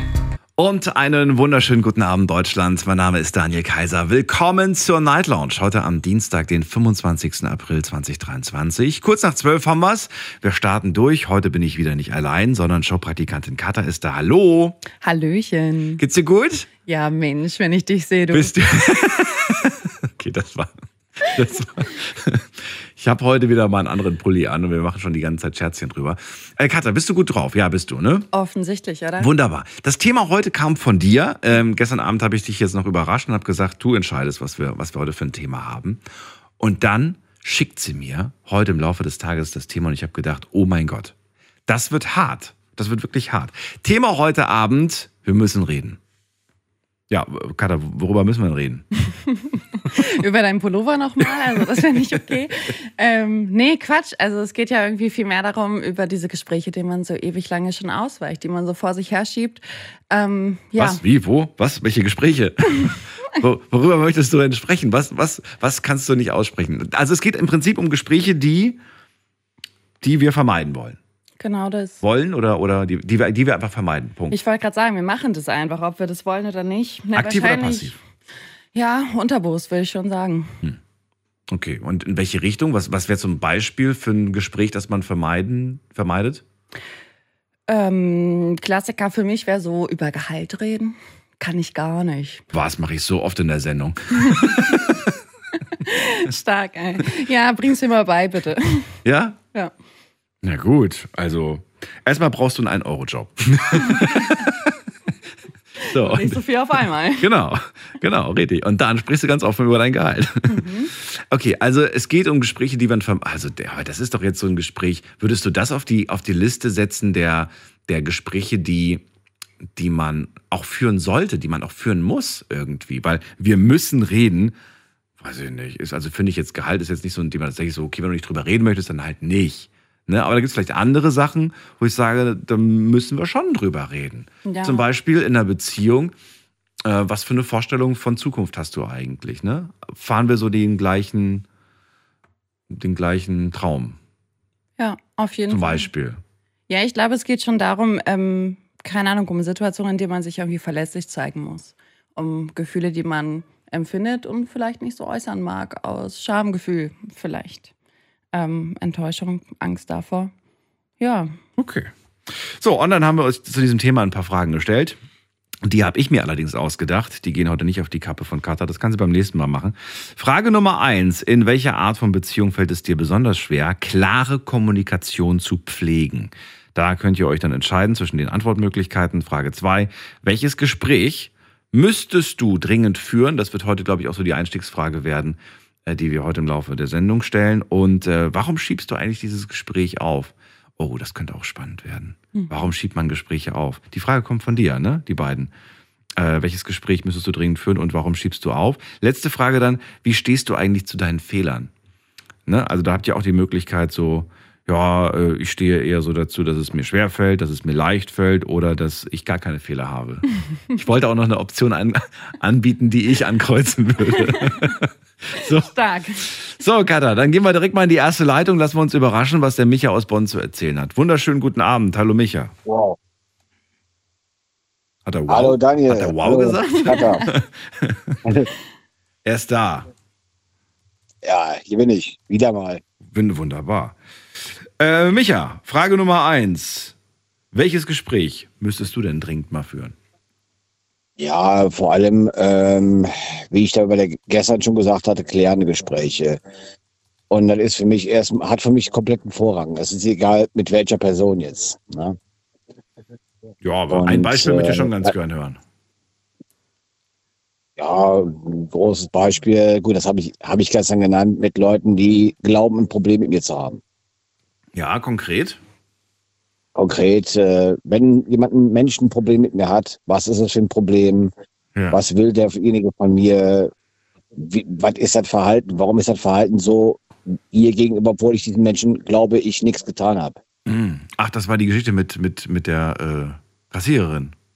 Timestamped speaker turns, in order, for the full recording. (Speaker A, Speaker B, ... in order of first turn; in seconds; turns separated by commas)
Speaker A: 0.6-14.8, Speaker B: 15.0-16.0, Speaker A: 16.0-16.7, Speaker B: 16.9-18.5, Speaker A: 18.3-28.3, Speaker B: 28.3-29.3, Speaker A: 29.2-36.0, Speaker A: 36.6-41.1, Speaker A: 41.7-46.0, Speaker A: 47.1-48.9, Speaker B: 49.3-61.0, Speaker A: 51.8-52.2, Speaker A: 60.8-68.8, Speaker A: 70.0-71.0, Speaker B: 71.4-72.0, Speaker A: 72.0-74.4, Speaker B: 74.3-78.0, Speaker A: 77.1-78.0, Speaker B: 78.7-80.5, Speaker A: 81.5-86.4, Speaker B: 87.7-92.4, Speaker A: 92.5-94.9, Speaker B: 94.2-94.8, Speaker B: 95.8-98.9, Speaker A: 99.0-99.4, Speaker A: 100.4-104.8, Speaker A: 105.8-106.4, Speaker B: 105.9-107.3, Speaker A: 107.2-119.0, Speaker B: 110.5-110.9, Speaker A: 119.8-124.5, Speaker A: 125.2-136.1, Speaker B: 134.4-134.9, Speaker A: 136.8-141.4, Speaker A: 142.7-144.0, Speaker B: 144.8-145.9, Speaker A: 145.5-146.2, Speaker B: 146.7-157.7, Speaker B: 158.3-160.3, Speaker B: 161.0-161.3, Speaker A: 161.6-165.0, Speaker A: 165.6-195.5, Speaker B: 192.3-192.7, Speaker A: 196.2-201.7, Speaker A: 202.5-215.7, Speaker B: 214.1-214.7, Speaker B: 215.4-216.2, Speaker A: 216.2-222.5, Speaker C: 222.6-223.0, Speaker A: 225.0-228.2, Speaker C: 225.3-227.2, Speaker B: 226.9-227.2, Speaker C: 228.2-228.5, Speaker A: 229.2-229.9, Speaker C: 231.2-232.8, Speaker A: 233.0-236.9, Speaker A: 237.5-239.9, Speaker C: 241.2-246.4, Speaker C: 247.3-252.2, Speaker A: 253.6-255.6, Speaker C: 253.9-255.1, Speaker C: 257.8-263.8, Speaker A: 264.7-265.6, Speaker C: 266.7-271.3, Speaker A: 271.7-272.0, Speaker C: 271.9-273.7, Speaker C: 274.3-280.4, Speaker A: 280.6-284.3